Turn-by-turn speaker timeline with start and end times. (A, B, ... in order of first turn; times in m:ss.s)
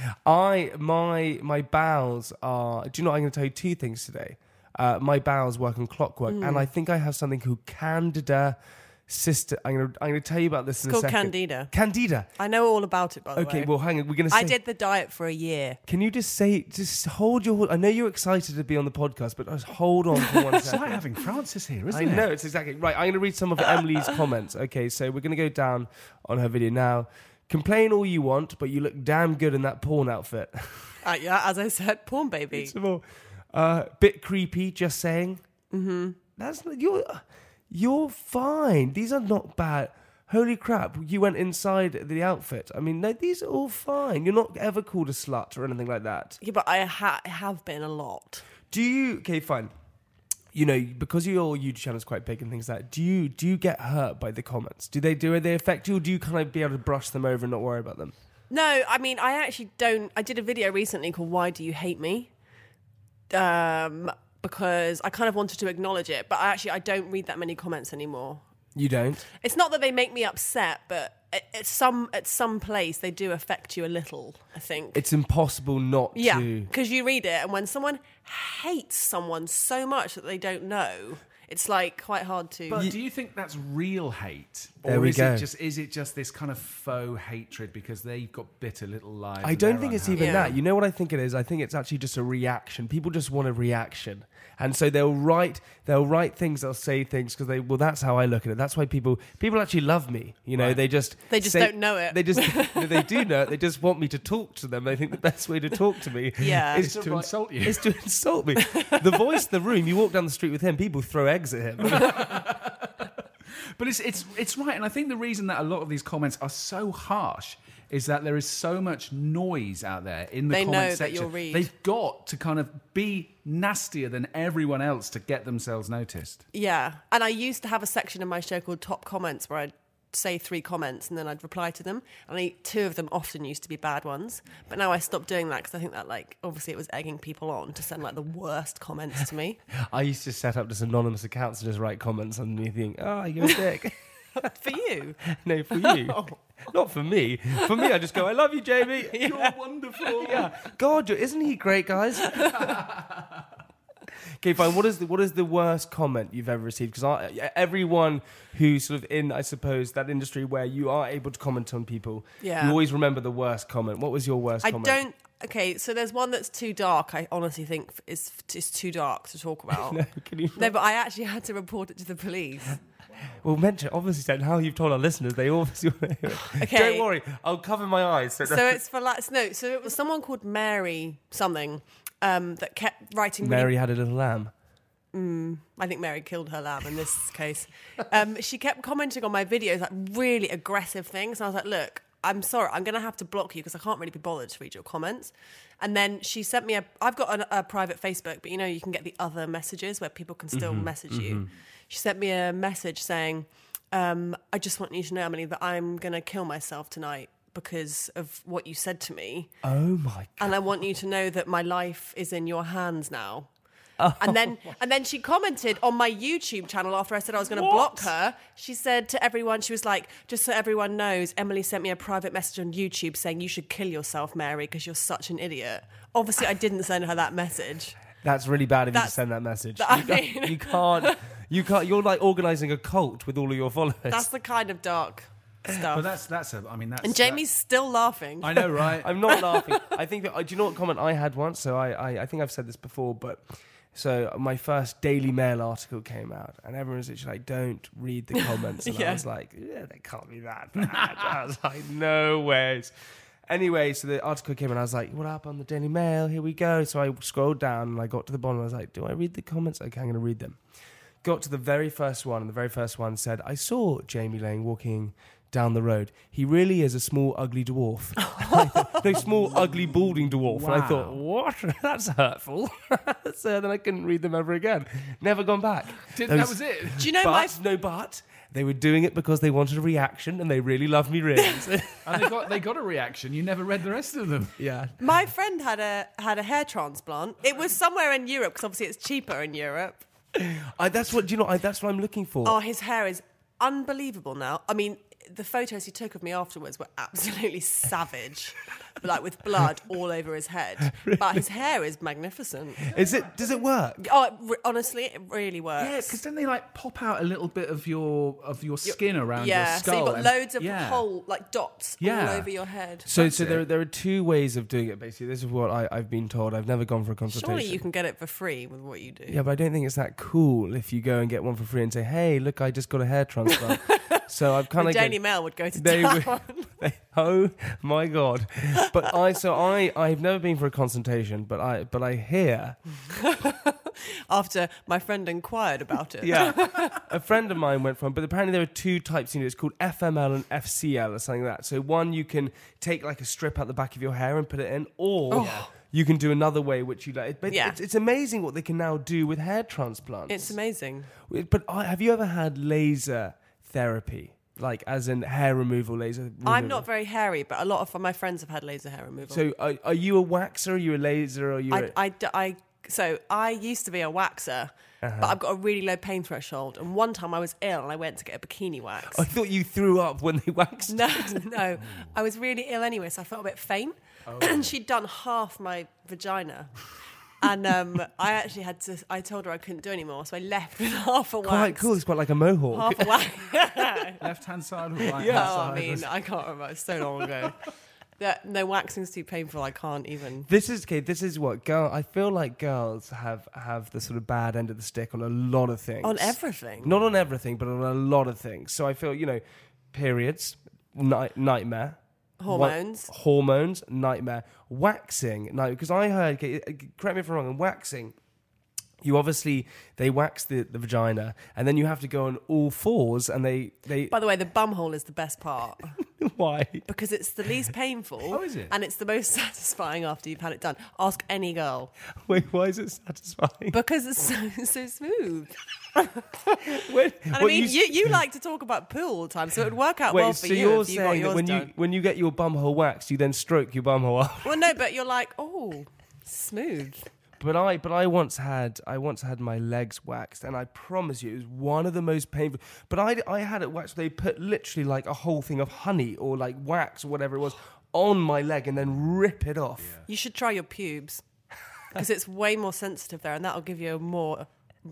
0:00.2-0:12.3 A
0:06.3-0:06.7 B
0:10.8-0:11.7 B
0:12.4-0:13.7 B
0:13.4-0:14.6 A
0:14.3-0:15.8 B
0:15.9-0:21.0 A
0:20.5-0:22.3 C
0:21.9-0:30.9 A
0:31.0-0:32.7 B
0:32.5-0:35.4 A
0:35.7-0:36.2 B
0:36.4-0:46.4 A
0:46.4-0:48.4 B
0:48.7-0:49.7 A
0:50.5-0:58.1 A
0:58.5-1:02.3 B
1:03.3-1:08.4 B
1:08.7-1:09.2 A
1:09.3-1:15.0 B
1:14.9-1:16.7 A
1:16.1-1:22.8 B
1:22.7-1:30.5 C
1:24.8-1:25.4 A
1:29.4-1:52.2 A
1:30.2-1:30.6 B
1:40.6-1:40.8 C
1:41.3-1:43.2 B
1:46.4-1:46.9 B
1:46.8-1:47.9 C
1:48.6-1:49.2 B
1:51.9-1:52.9 C
1:53.8-2:06.4 C
2:00.5-2:01.7 B
2:06.5-2:19.6 B
2:19.7-2:24.0 A
2:24.3-2:25.2 B
2:25.3-2:29.3 A
2:25.7-2:26.4 B
2:29.1-2:30.4 B
2:29.2-2:30.5 C
2:30.2-2:32.8 A
2:32.5-2:33.3 C
2:34.4-2:45.0 A
2:42.4-2:42.8 B
2:44.6-2:50.0 B
2:49.7-2:50.7 A
2:50.6-2:52.8 B
2:53.4-2:58.8 A
2:56.4-2:57.1 B
2:58.4-3:03.7 B
3:03.4-3:04.5 A
3:05.1-3:29.5 B
3:20.5-3:21.5 A
3:29.6-3:30.5 A
3:30.4-3:33.5 B
3:34.0-3:34.5 A
3:34.2-3:48.0 B
3:37.5-3:38.1 A
3:48.2-3:54.3 A
3:48.9-3:49.2 B
3:49.8-3:51.2 B
3:54.1-3:56.1 B
3:55.9-3:57.4 C
3:57.0-3:59.6 B
3:58.4-3:59.1 C
3:59.0-4:12.9 A
4:08.4-4:09.2 B
4:13.5-4:20.6 A
4:21.2-4:42.3 A
4:28.2-4:29.0 B
4:29.2-4:31.2 C
4:36.1-4:37.1 C
4:37.0-4:37.6 B
4:42.0-4:44.6 C
4:44.6-4:44.9 A
4:45.0-4:50.0 B
4:50.3-4:52.6 A
4:52.4-5:03.0 B
5:00.9-5:01.4 A
5:02.9-5:04.0 A
5:04.0-5:06.2 B
5:05.8-5:11.1 C
5:08.8-5:13.1 B
5:12.0-5:12.5 C
5:13.1-5:17.8 A
5:13.1-5:13.6 C
5:17.3-5:19.4 B
5:19.3-5:25.2 A
5:23.6-5:24.2 B
5:24.8-5:26.7 B
5:25.7-5:32.8 A
5:33.1-5:37.0 B
5:36.2-5:50.6 A
5:45.3-5:45.7 B
5:45.4-5:45.7 C
5:47.5-5:47.8 B
5:50.3-5:51.1 B
5:51.3-5:56.8 A
5:56.4-5:59.4 B
5:59.3-6:01.9 A
6:01.7-6:09.2 B
6:05.0-6:05.4 A
6:09.1-6:11.5 A
6:10.9-6:16.8 B
6:14.3-6:14.7 C
6:17.4-6:22.0 B
6:21.4-6:23.2 A
6:22.7-6:24.2 B
6:24.2-6:26.1 C
6:25.2-6:27.6 B
6:25.2-6:25.5 A
6:28.2-6:30.5 B
6:30.5-6:48.1 A
6:36.0-6:36.9 B
6:42.4-6:43.1 B
6:49.0-6:54.2 A
6:54.1-6:56.0 B
6:56.2-6:56.8 A
6:56.8-7:01.9 B
6:58.3-6:58.7 C
7:02.2-7:03.8 A
7:03.7-7:06.7 B
7:06.7-7:08.1 A
7:07.3-7:11.7 B
7:10.1-7:14.6 A
7:14.4-7:17.1 B
7:17.4-7:30.0 A
7:30.1-7:31.2 B
7:31.9-7:34.5 B